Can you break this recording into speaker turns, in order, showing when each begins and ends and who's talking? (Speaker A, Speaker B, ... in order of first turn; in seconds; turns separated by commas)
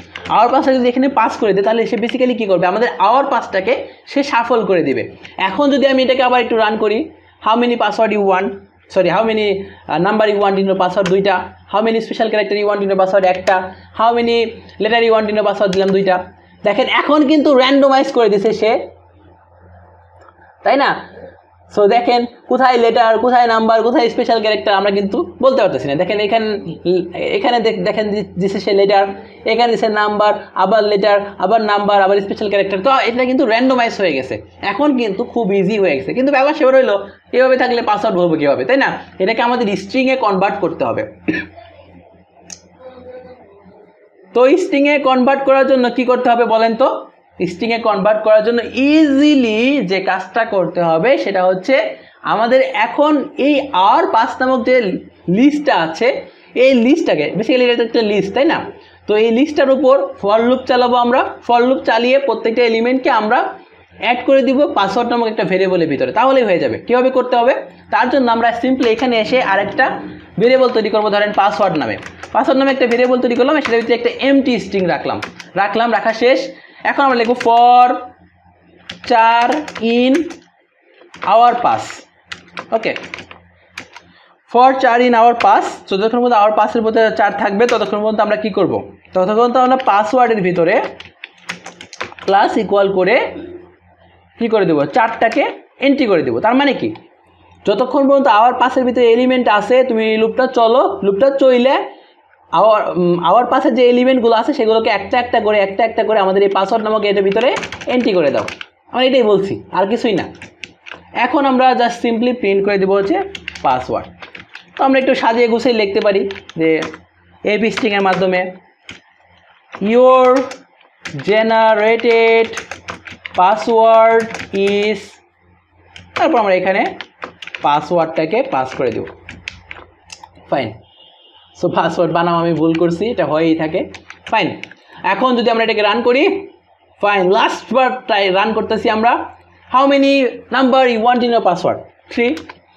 Speaker A: 0.3-18.8, Speaker A: 20.6-20.9, Speaker A: 21.7-41.1, Speaker A: 44.3-63.4, Speaker A: 64.1-78.0, Speaker A: 79.0-80.3, Speaker A: 81.3-82.0, Speaker A: 82.7-83.0, Speaker A: 84.5-90.8, Speaker A: 92.3-93.3, Speaker A: 94.4-96.9, Speaker A: 97.7-101.8, Speaker A: 102.6-110.3, Speaker A: 111.2-114.1, Speaker A: 114.8-116.8, Speaker A: 117.5-118.5, Speaker A: 119.8-120.5, Speaker A: 121.2-122.6, Speaker A: 123.4-125.2, Speaker A: 126.2-126.9, Speaker A: 127.6-129.1, Speaker A: 130.5-130.8, Speaker A: 131.6-136.5, Speaker A: 137.0-139.2, Speaker A: 139.7-142.4